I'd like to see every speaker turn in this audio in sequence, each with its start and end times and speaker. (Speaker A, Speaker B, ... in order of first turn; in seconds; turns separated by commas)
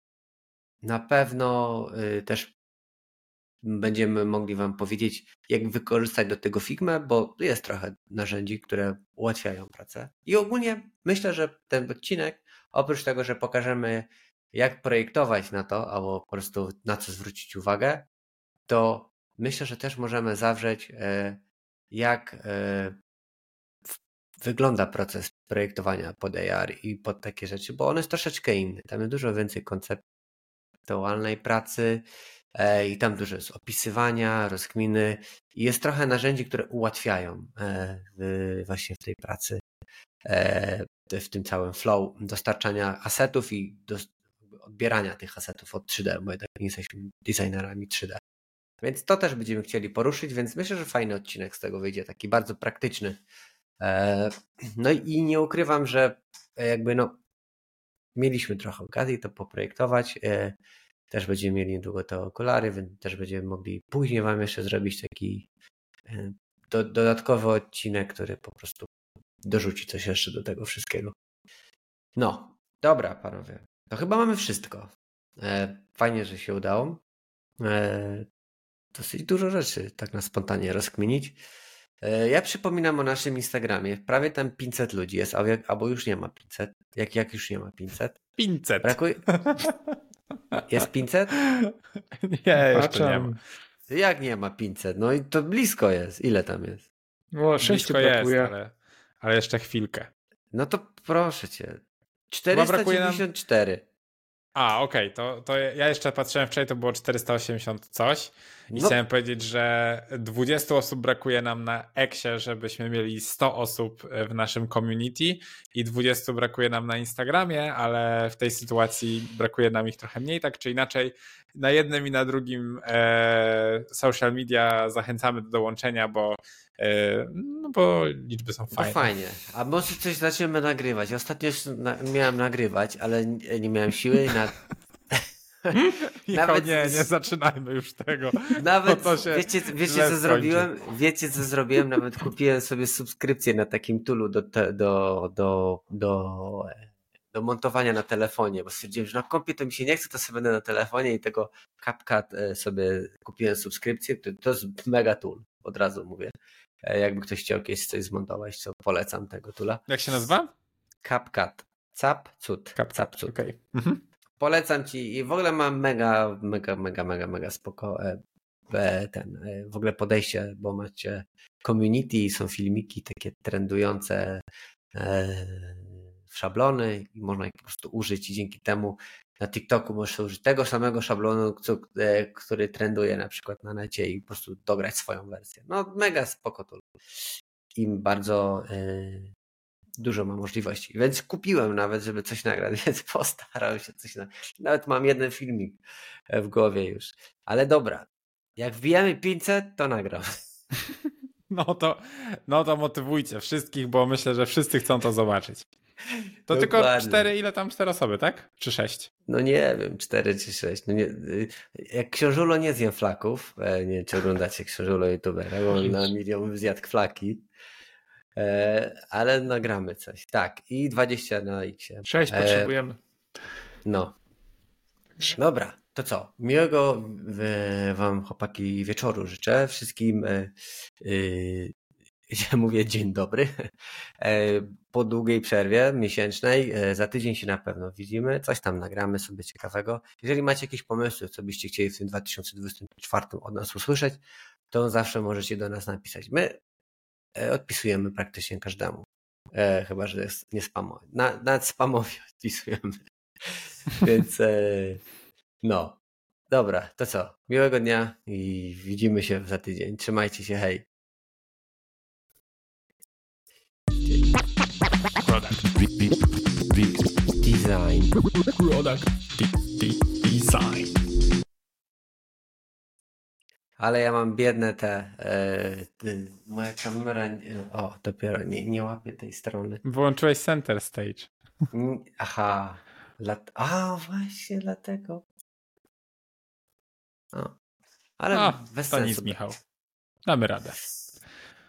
Speaker A: 0.8-2.5, Speaker A: 3.6-18.1, Speaker A: 18.7-23.0, Speaker A: 24.4-30.0, Speaker A: 30.9-39.6, Speaker A: 40.2-48.2, Speaker A: 48.8-53.2, Speaker A: 53.8-57.2, Speaker A: 58.1-60.6, Speaker A: 61.1-65.5, Speaker A: 66.1-68.9, Speaker A: 69.4-71.1, Speaker A: 72.2-77.0, Speaker A: 77.6-78.3, Speaker A: 78.9-81.4, Speaker A: 82.0-88.2, Speaker B: 88.4-90.0, Speaker A: 88.8-89.2, Speaker A: 90.7-91.3, Speaker B: 91.3-93.3, Speaker C: 92.7-93.4, Speaker A: 93.9-96.8, Speaker C: 97.3-98.5, Speaker B: 97.6-100.1, Speaker A: 100.5-103.8, Speaker B: 102.5-103.2, Speaker B: 104.5-129.1, Speaker A: 108.7-109.0, Speaker A: 128.7-134.5, Speaker A: 135.1-137.1, Speaker B: 135.7-140.7, Speaker A: 138.5-156.3, Speaker A: 156.8-159.8, Speaker B: 159.9-160.5, Speaker A: 161.0-163.4, Speaker B: 162.8-164.0, Speaker A: 164.4-174.4, Speaker A: 174.9-189.3, Speaker A: 190.0-195.8, Speaker A: 196.3-200.4, Speaker B: 201.5-205.7, Speaker A: 206.5-207.3, Speaker B: 206.5-209.1, Speaker A: 209.3-217.4, Speaker A: 218.4-222.7, Speaker C: 222.0-223.0, Speaker A: 223.8-224.2, Speaker A: 225.2-231.7, Speaker A: 232.3-246.6, Speaker A: 247.3-255.0, Speaker A: 255.6-260.9, Speaker B: 265.2-265.7, Speaker A: 267.4-268.1, Speaker B: 268.5-270.9, Speaker A: 273.8-279.8, Speaker B: 279.8-281.3, Speaker A: 281.7-285.2, Speaker A: 288.2-289.4, Speaker B: 288.3-289.6, Speaker B: 290.2-290.8